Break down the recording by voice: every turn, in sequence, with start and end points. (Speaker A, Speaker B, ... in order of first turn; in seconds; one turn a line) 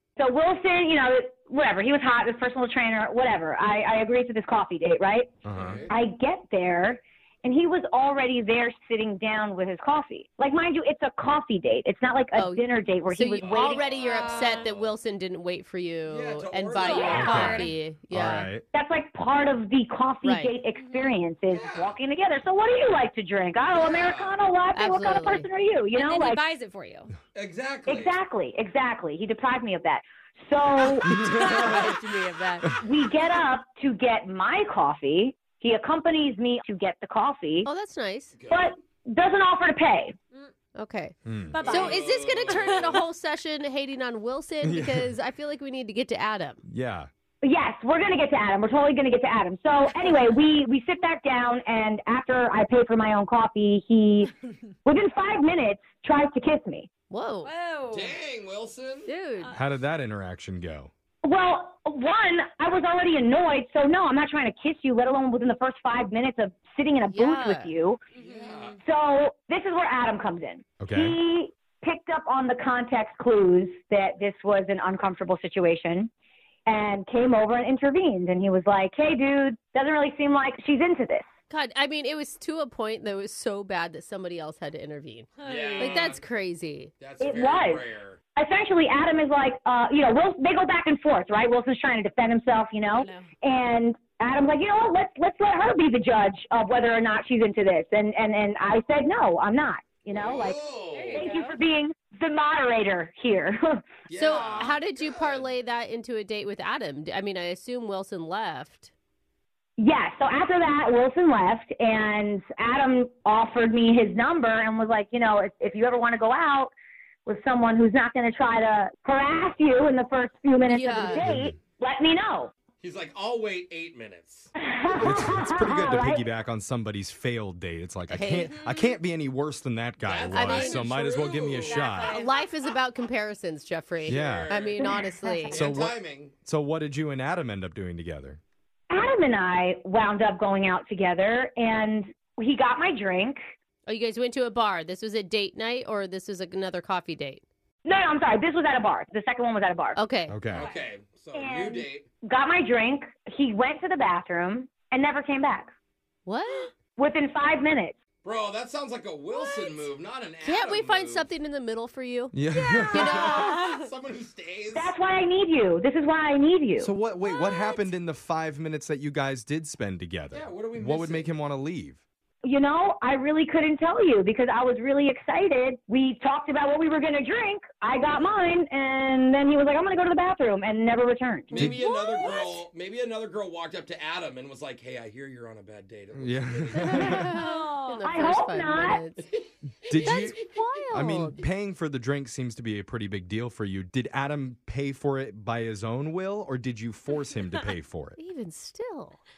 Speaker A: 0.2-5.3
Speaker B: 5.5-5.8
Speaker C: 5.5-6.0
Speaker A: 5.9-13.9
Speaker D: 12.3-18.5
Speaker C: 13.4-14.9
Speaker E: 13.7-14.7
Speaker C: 16.1-17.7
Speaker A: 16.8-17.4
Speaker E: 16.8-17.7
Speaker B: 17.1-18.6
Speaker A: 18.7-26.4
Speaker D: 20.2-20.5
Speaker E: 20.8-21.2
Speaker C: 21.5-22.0
Speaker C: 23.7-24.4
Speaker D: 24.8-25.5
Speaker E: 25.9-27.1
Speaker C: 27.3-28.2
Speaker A: 27.9-31.2
Speaker B: 31.1-31.9
Speaker D: 31.1-32.7
Speaker A: 32.8-37.7
Speaker D: 37.6-38.4
Speaker C: 38.4-38.8
Speaker A: 38.5-40.1
Speaker D: 40.8-46.6
Speaker B: 41.2-41.7
Speaker E: 41.5-42.9
Speaker C: 41.6-43.0
Speaker B: 44.6-45.1
Speaker B: 46.6-47.1
Speaker A: 47.4-54.3
Speaker A: 54.9-56.9
Speaker D: 57.1-57.5
Speaker E: 57.4-58.1
Speaker C: 57.9-59.1
Speaker D: 59.1-59.5
Speaker E: 59.4-59.6
Speaker B: 59.5-60.9
Speaker A: 61.2-68.0
Speaker D: 67.1-67.7
Speaker E: 68.2-68.8
Speaker C: 68.2-68.8
Speaker A: 68.8-76.1
Speaker B: 70.8-71.2
Speaker A: 76.7-81.2
Speaker D: 81.5-86.9
Speaker E: 85.4-86.0
Speaker C: 85.4-86.2
Speaker C: 87.0-88.2
Speaker A: 87.2-87.8
Speaker A: 88.4-103.8
Speaker E: 92.9-93.3
Speaker C: 100.1-101.3
Speaker E: 100.9-101.6
Speaker C: 104.1-105.5
Speaker D: 104.2-108.9
Speaker A: 109.8-116.7
Speaker A: 117.3-122.5
Speaker D: 120.7-121.2
Speaker B: 121.1-121.6
Speaker C: 122.8-124.5
Speaker A: 124.6-126.2
Speaker B: 125.0-132.2
Speaker D: 128.1-128.6
Speaker E: 128.5-128.9
Speaker C: 130.0-132.2
Speaker D: 130.3-130.8
Speaker E: 130.5-131.0
Speaker E: 131.5-132.4
Speaker D: 132.1-135.7
Speaker B: 134.1-134.7
Speaker C: 134.1-134.8
Speaker A: 134.8-135.7
Speaker B: 135.5-138.4
Speaker C: 135.5-136.3
Speaker A: 138.9-143.4
Speaker D: 143.9-147.4
Speaker A: 147.8-150.0
Speaker D: 149.9-150.4
Speaker B: 150.3-150.7
Speaker C: 150.5-152.1
Speaker E: 150.5-150.8
Speaker A: 151.3-155.7
Speaker D: 156.3-156.7
Speaker A: 157.0-157.9
Speaker C: 158.2-161.3
Speaker D: 160.4-162.4
Speaker B: 162.3-163.3
Speaker E: 162.5-163.8
Speaker D: 162.9-163.6
Speaker C: 163.0-164.9
Speaker A: 164.7-166.9
Speaker B: 166.8-172.0
Speaker E: 167.2-167.9
Speaker C: 170.3-171.3
Speaker A: 172.4-181.7
Speaker C: 178.1-178.4
Speaker C: 181.5-187.3
Speaker B: 181.5-181.8
Speaker E: 181.8-182.6
Speaker B: 186.1-187.3
Speaker D: 186.8-189.2
Speaker E: 187.3-188.3
Speaker A: 188.1-189.0
Speaker B: 189.9-190.4
Speaker D: 190.0-191.4
Speaker B: 190.9-198.2
Speaker D: 198.2-199.2